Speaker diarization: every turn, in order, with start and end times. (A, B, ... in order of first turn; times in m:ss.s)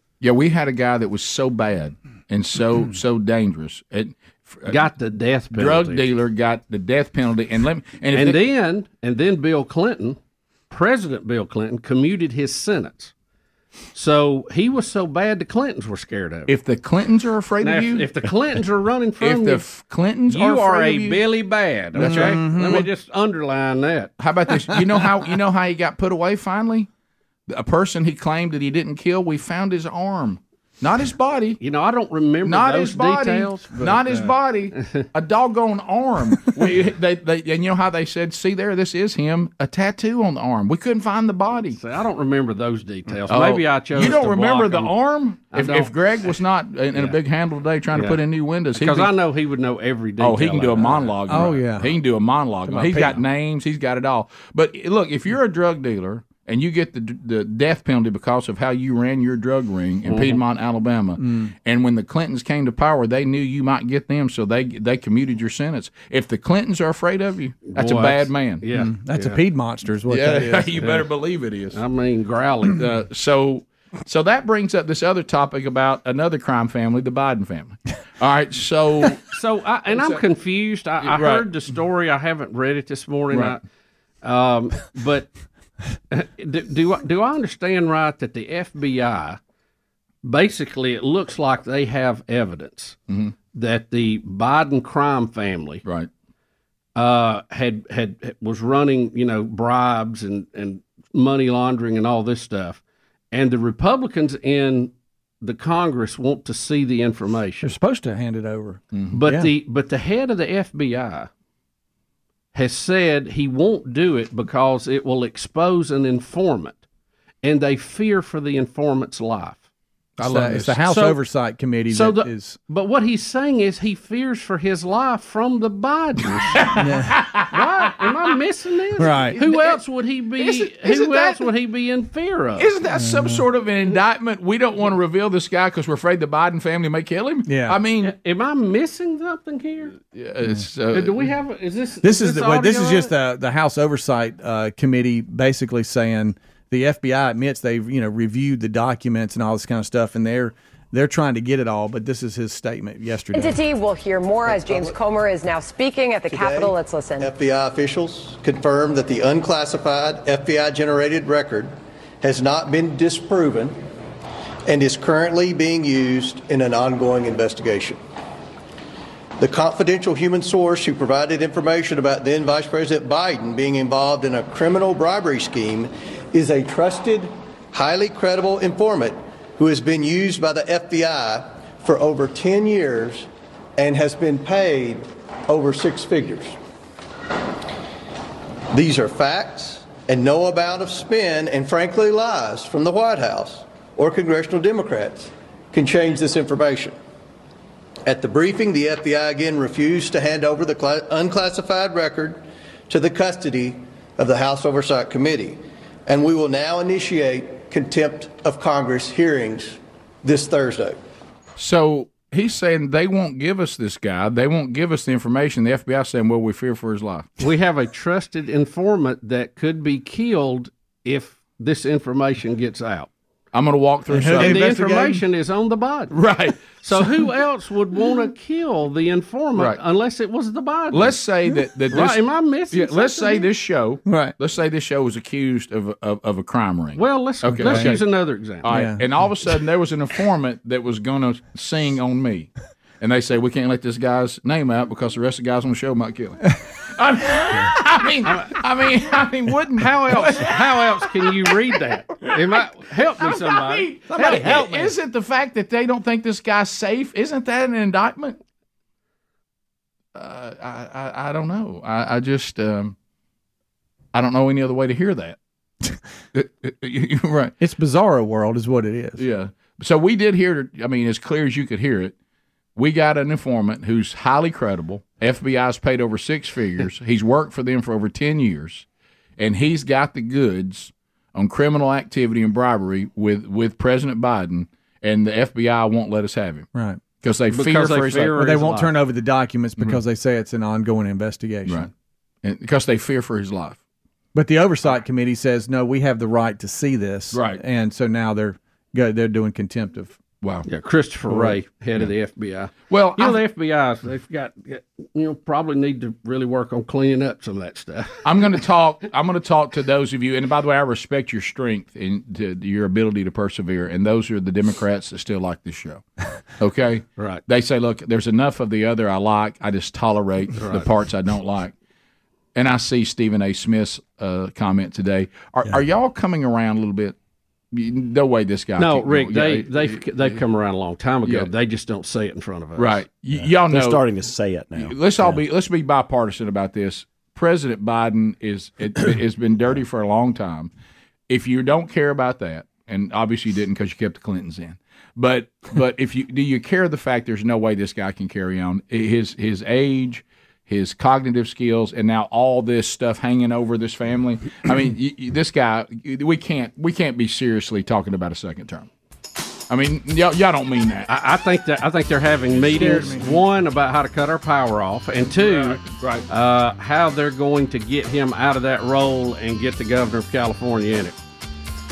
0:00.2-0:04.9 A
0:04.7-0:06.1 B
0:05.5-0:08.4 A
0:08.1-0:10.2 B
0:10.7-0:13.1 B
0:13.9-0:16.5 B
0:16.5-0:18.1 A
0:17.6-0:19.6 B
0:19.2-0:21.2 A
0:20.3-0:24.1 B
0:22.0-0:22.8 A
0:22.0-0:22.9 C
0:24.2-0:26.9 A
0:27.5-0:31.6 A
0:31.6-0:35.0 B
0:32.4-0:41.8 A
0:41.7-0:44.9 B
0:43.3-0:49.1 A
0:45.5-0:45.9 B
0:47.9-0:48.2 B
0:48.7-0:51.5 B
0:50.2-1:08.6 A
0:51.3-0:52.0 C
0:52.7-0:53.2 C
1:00.1-1:00.4 B
1:01.2-1:01.5 C
1:07.7-1:09.4 B
1:08.7-1:10.9 C
1:10.1-1:11.8 A
1:11.7-1:12.8 B
1:12.7-1:19.2 A
1:19.3-1:23.6 B
1:19.9-1:20.2 A
1:21.0-1:21.5 A
1:23.3-1:23.6 A
1:24.2-1:25.3 B
1:26.1-1:29.4 B
1:30.2-1:33.0 B
1:33.1-1:33.4 A
1:33.5-1:35.8 B
1:35.8-1:36.1 A
1:37.0-1:47.7 B
1:47.6-1:49.5 C
1:49.1-1:51.3 B
1:52.5-1:56.8 B
1:57.4-1:59.6 B
2:00.2-2:00.8 A
2:00.2-2:02.6 C
2:00.8-2:01.2 B
2:01.9-2:06.7 B
2:06.6-2:08.0 A
2:06.7-2:07.2 C
2:07.5-2:12.7 B
2:09.0-2:09.4 C
2:09.4-2:09.8 A
2:10.4-2:11.5 A
2:12.6-2:18.1 A
2:13.0-2:13.4 C
2:17.5-2:17.8 C
2:18.0-2:20.0 B
2:20.1-2:21.2 A
2:20.9-2:23.1 B
2:22.0-2:33.6 C
2:33.3-2:37.3 D
2:34.5-2:35.0 E
2:36.3-2:43.8 E
2:44.7-2:48.0 E
2:49.4-3:06.6 E
3:08.7-3:17.0 E
3:18.0-3:31.0 E
3:31.6-3:37.3 A
3:37.4-3:43.1 B
3:43.5-3:44.7 A
3:44.1-3:45.2 C
3:44.3-3:51.2 B
3:46.1-3:46.6 A
3:50.9-3:58.0 A
3:51.9-3:53.5 B
3:54.1-3:54.3 C
3:57.0-3:58.7 B
3:57.6-3:58.0 C
3:58.6-4:11.3 A
3:58.7-3:59.0 C
4:08.2-4:08.6 B
4:09.8-4:14.6 B
4:13.2-4:18.4 A
4:14.1-4:14.9 C
4:20.2-4:23.0 A
4:24.1-4:25.4 A
4:26.3-4:27.6 A
4:27.6-4:29.2 C
4:29.2-4:32.2 A
4:32.8-4:38.9 A
4:39.4-4:46.7 A
4:46.8-4:47.0 C
4:47.2-4:48.4 A
4:47.5-4:49.0 B
4:48.3-4:51.9 C
4:52.4-4:53.8 A
4:54.3-5:00.2 C
4:57.3-4:57.6 A
5:00.4-5:00.7 A
5:00.7-5:08.2 B
5:02.9-5:03.4 A
5:08.2-5:16.0 A
5:16.6-5:21.7 A
5:20.6-5:20.9 B
5:22.6-5:27.2 A
5:27.7-5:30.4 A
5:28.8-5:33.0 B
5:31.2-5:31.5 A
5:32.8-5:34.0 A
5:33.4-5:35.4 F
5:34.8-5:40.7 A
5:41.3-5:58.9 A
5:59.7-6:01.1 A
6:01.1-6:11.2 B
6:02.6-6:03.4 C
6:05.6-6:06.2 A